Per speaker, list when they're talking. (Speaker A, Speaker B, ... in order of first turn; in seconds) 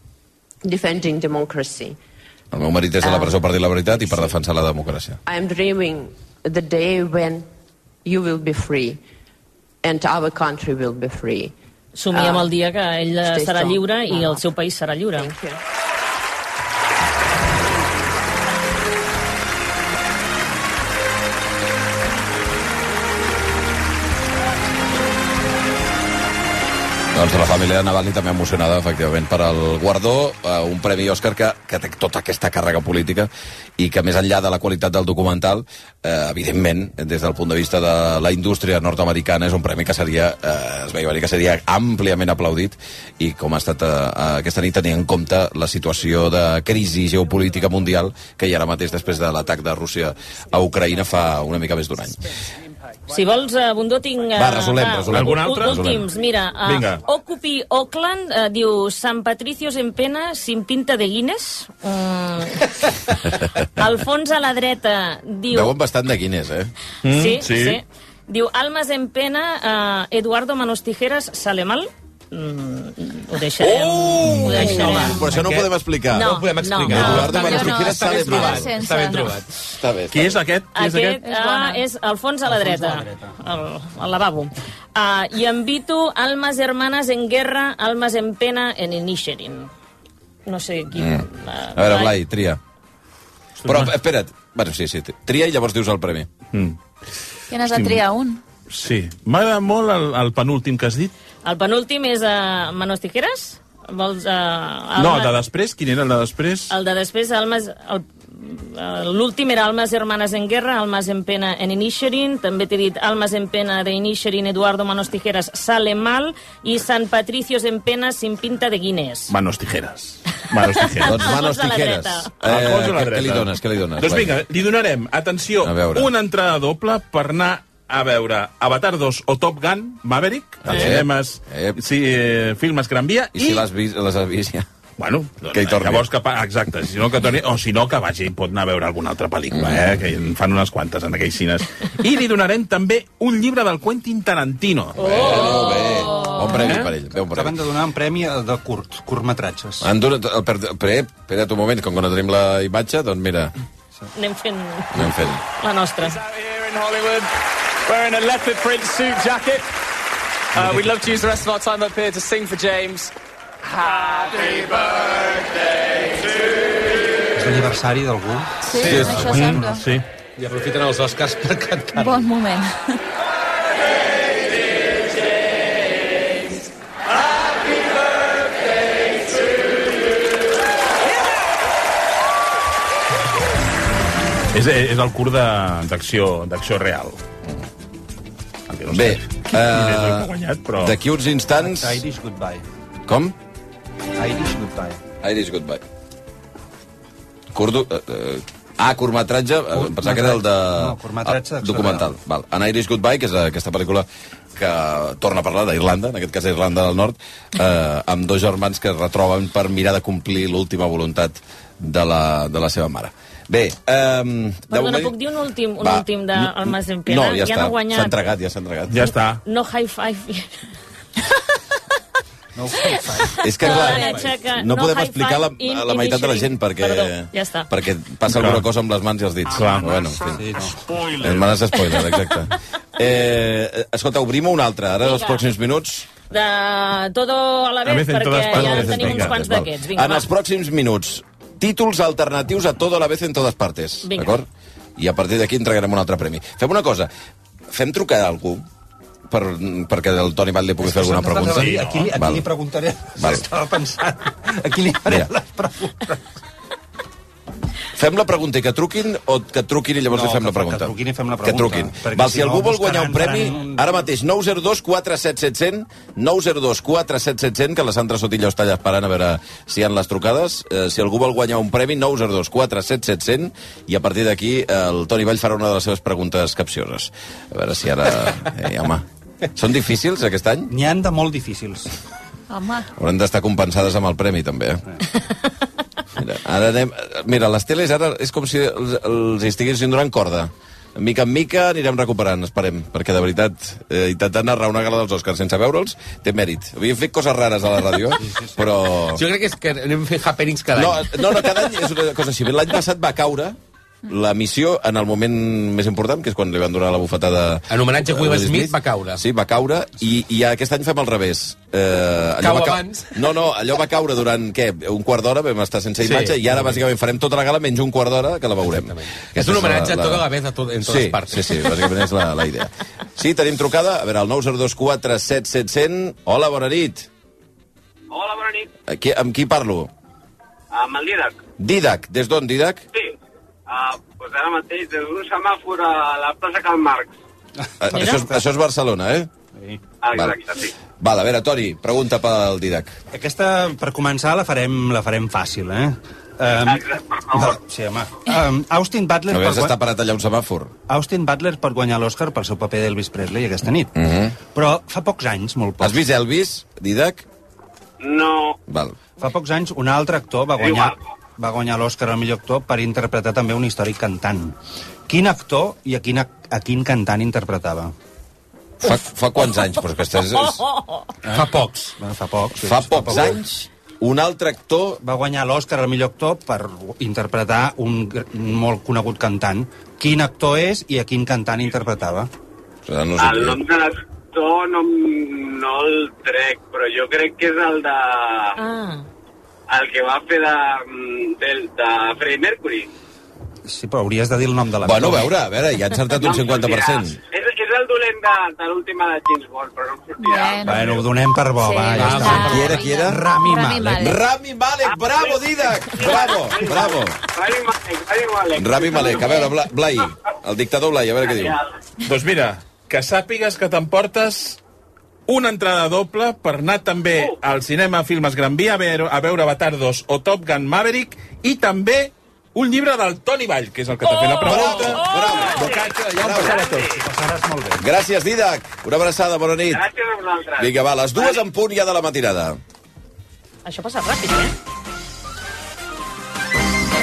Speaker A: 0.6-1.9, 3.0-3.4, 5.3-7.5, 8.0-9.0, 9.8-11.5, 12.1-12.5, 13.2-14.4, 15.2-15.5
Speaker B: 2.5-5.2, 27.1-52.2, 54.4-56.0, 65.5-66.7, 74.2-76.3, 76.8-78.7, 79.8-80.4, 91.0-92.6, 93.7-96.3, 121.0-124.4, 125.6-126.1, 130.6-131.8, 133.3-134.7, 135.5-136.1, 139.5-139.8, 145.0-147.6, 149.8-153.5, 154.9-155.4, 188.9-192.0, 193.1-193.3, 195.2-195.8, 197.5-215.1, 215.8-219.0, 223.4-236.1, 238.5-244.4, 245.0-247.1, 247.7-248.7, 249.3-252.4, 253.2-253.4, 257.9-260.9, 261.4-280.7, 282.9-284.8, 286.1-299.2, 300.7-320.2, 320.8-327.1, 328.9-329.9, 331.6-332.8, 337.8-339.3, 340.1-340.4, 341.0-343.0, 349.3-350.7, 353.9-354.3, 355.8-357.2, 358.7-359.0, 368.8-370.6, 372.6-375.0, 382.9-383.6, 394.8-397.2, 402.3-403.2, 403.9-407.2, 408.6-411.6, 424.4-426.6, 427.8-429.9, 430.6-432.6
Speaker C: 11.9-15.3, 53.1-62.7, 63.8-65.7, 67.1-75.2, 76.1-77.4, 80.7-89.7, 90.5-92.2, 101.4-105.3, 106.7-119.3, 120.9-122.3, 145.0-146.3, 154.1-156.2, 214.7-218.3, 219.4-220.5, 223.6-227.7, 235.0-235.4, 236.3-240.3, 244.1-244.4, 337.9-338.2, 370.4-371.1, 388.6-389.1, 424.0-425.7, 433.6-434.5
Speaker D: 55.1-56.0, 56.6-57.0, 67.0-67.8, 80.1-81.2, 93.6-94.0, 96.5-96.8, 97.7-98.0, 98.7-101.1, 105.0-106.7, 119.3-121.3, 122.4-133.7, 135.0-145.3, 168.9-170.0, 184.5-187.2, 188.7-191.0, 218.9-219.4, 228.3-228.7, 229.5-230.1, 237.8-239.6, 251.6-252.0, 412.0-414.6, 415.3-425.8
Speaker E: 74.1-79.5, 168.8-169.5, 170.4-172.2, 223.6-224.3, 299.0-301.2, 307.7-309.2, 312.4-313.3, 316.0-316.8, 318.7-321.7, 371.3-371.9, 401.9-402.8
Speaker F: 77.1-79.4, 81.2-81.8, 97.5-98.4, 145.5-146.7, 168.6-169.8, 171.9-173.0, 282.5-282.9, 400.2-401.0, 401.6-404.2, 409.0-409.5
Speaker G: 82.5-83.3, 147.3-149.9, 167.3-169.8, 191.6-192.6, 194.2-195.0, 199.7-202.1, 222.6-223.3, 230.3-230.8, 250.8-256.2, 260.1-264.0, 280.7-281.9, 298.2-298.6, 339.6-339.8, 343.1-349.8, 350.9-353.9, 354.5-356.0, 359.2-364.6, 365.1-367.9, 372.0-373.4, 375.0-382.3, 393.6-395.3, 400.6-404.1, 425.9-427.8
Speaker H: 158.6-159.5, 160.9-162.9
Speaker I: 328.1-328.7, 330.7-331.4, 333.7-337.1, 340.0-340.7, 346.6-347.5, 358.0-358.6, 360.6-361.0, 383.2-388.6, 389.7-392.9, 396.1-401.0, 404.8-409.4, 411.2-411.6, 426.4-427.0, 429.7-431.4